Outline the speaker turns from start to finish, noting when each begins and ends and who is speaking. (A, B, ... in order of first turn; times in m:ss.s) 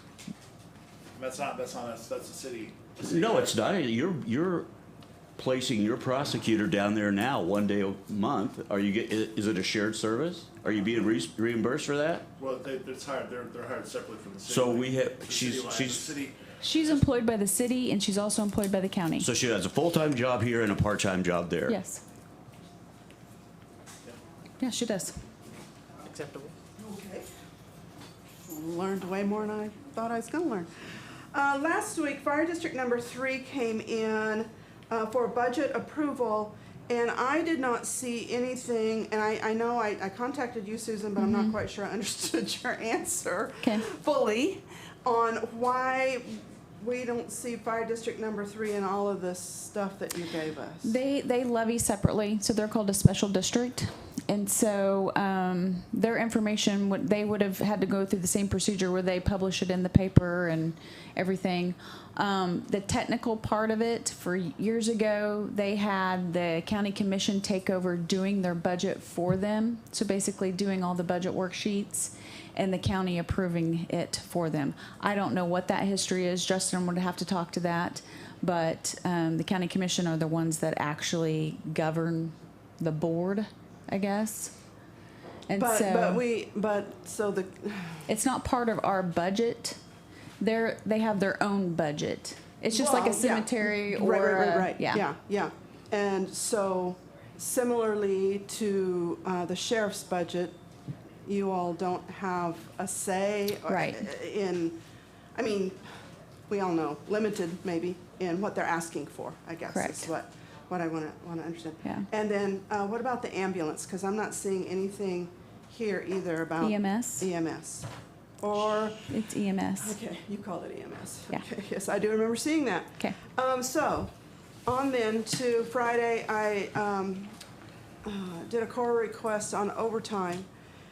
0:01.2-0:03.6 A
0:03.0-0:04.7 B
0:05.4-0:12.2 B
0:12.4-0:16.9 A
0:14.5-0:16.1 B
0:16.6-0:19.3 C
0:19.2-0:21.8 B
0:21.7-0:22.0 C
0:24.6-0:25.2 C
0:26.8-0:27.3 D
0:28.5-0:30.7 D
0:31.3-0:51.0 D
0:41.2-0:41.6 C
0:43.6-0:43.9 C
0:50.8-1:24.5 C
1:25.5-1:26.2 C
1:25.6-1:28.1 D
1:28.1-1:29.8 C
1:30.4-1:35.0 C
1:32.7-1:40.6 D
1:41.2-1:44.8 D
1:43.7-1:44.1 C
1:45.4-1:45.8 D
1:46.5-1:57.9 D
1:49.7-1:50.1 C
1:56.6-1:57.3 C
1:58.4-1:59.1 D
1:59.1-2:00.0 C
1:59.8-2:04.1 D
2:04.7-2:07.4 D
2:08.0-2:10.5 D